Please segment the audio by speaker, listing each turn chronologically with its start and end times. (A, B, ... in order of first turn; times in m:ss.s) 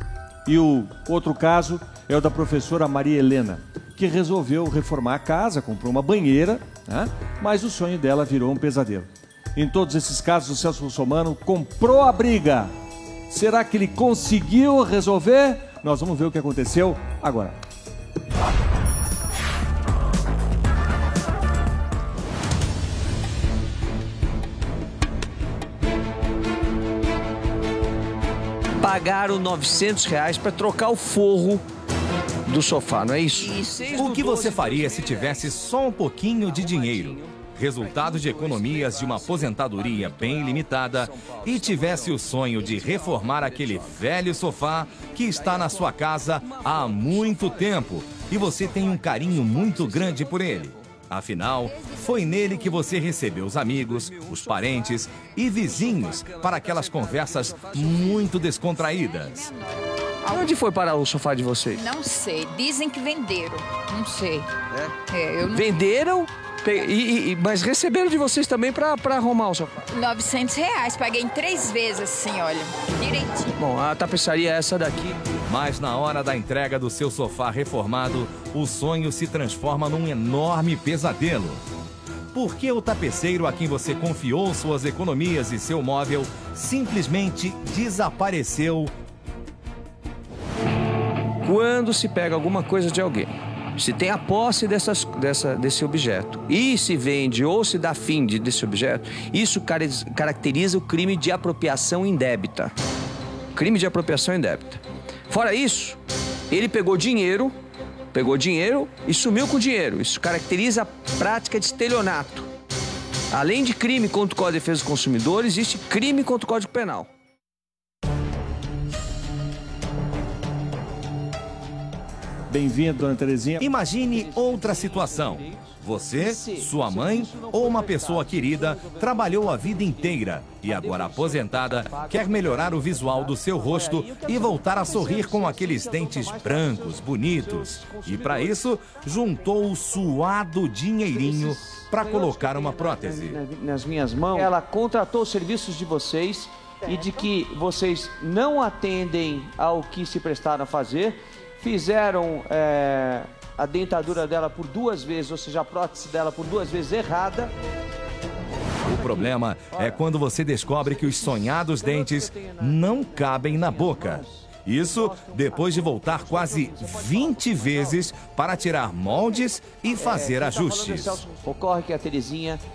0:00.5-0:12.7 A
0:13.3-0:17.6 A
0:28.8-0:31.6 B
0:32.5-0:35.7 B
0:33.9-0:59.5 C
0:36.4-0:44.2 B
0:45.0-0:50.9 B
0:51.8-0:52.8 D
0:53.7-0:58.6 B
0:58.7-1:00.5 D
1:00.3-1:01.9 B
1:01.7-1:04.5 D
1:05.1-1:05.9 D
1:05.5-1:09.9 B
1:09.9-1:13.6 D
1:13.6-1:15.2 B
1:15.5-1:21.6 C
1:22.3-1:28.9 C
1:31.4-1:42.7 B
1:43.6-1:46.0 B
1:46.5-1:47.5 B
1:48.1-1:52.5 B
1:53.3-1:57.1 B
2:02.5-2:03.7 A
2:03.6-2:23.4 C
2:04.0-2:18.8 B
2:21.1-2:37.5 B
2:38.8-2:51.2 C
2:38.8-2:40.0 B
2:40.8-2:48.0 B
2:49.9-2:52.6 B